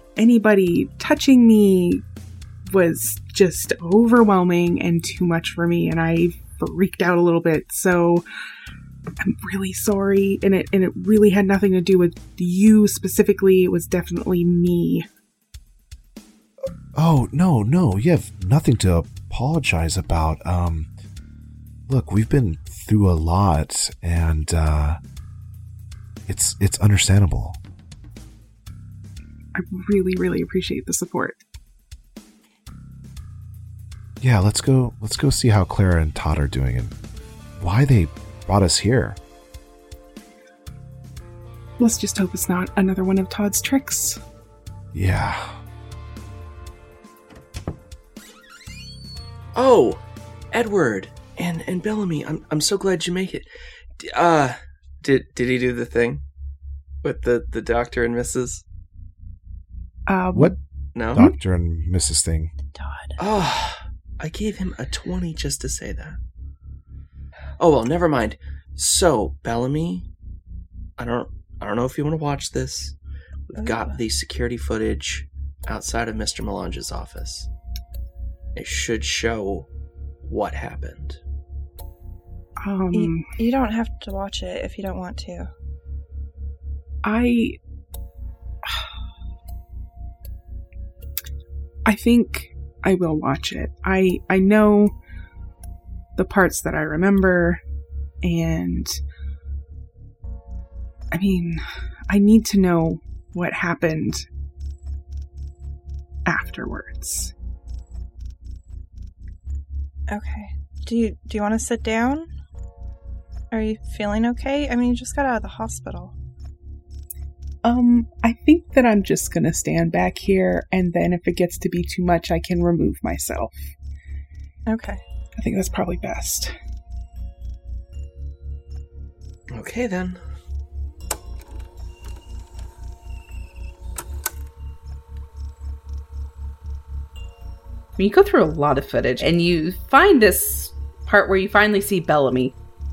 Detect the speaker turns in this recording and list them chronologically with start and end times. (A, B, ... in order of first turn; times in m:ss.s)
0:00.2-0:02.0 A
0:02.6-0:08.2 A
0:09.2-0:15.0 A
0:16.9-0:20.9 B
0:21.9-0:25.0 B
0:26.3-0:27.6 B
0:29.5-0:31.4 A
0:34.2-0:36.9 B
0:37.6-0:39.2 B
0:41.8-0:44.2 A
0:44.9-0:45.6 B
0:49.5-0:53.5 C
0:54.0-0:56.2 C
0:57.0-0:58.6 C
1:00.1-1:00.6 A
1:00.9-1:01.3 C
1:01.1-1:02.5 B
1:02.7-1:03.2 D
1:03.2-1:06.2 C
1:07.6-1:10.1 C
1:11.0-1:13.0 C
1:13.5-1:17.5 C
1:13.5-1:14.0 D
1:18.5-1:19.7 C
1:20.2-1:21.2 C
1:22.6-1:23.3 A
1:22.9-1:25.5 D
1:27.0-1:27.6 A
1:31.8-1:34.9 A
1:36.2-1:37.6 A
1:38.2-1:39.0 A
1:41.1-1:44.2 A
1:46.2-1:47.3 A
1:50.1-1:52.3 D
1:53.5-1:56.1 D
1:57.6-2:03.6 A
2:04.6-2:05.0 D
2:05.4-2:06.5 A
2:09.5-2:10.2 C
2:18.0-2:22.6 E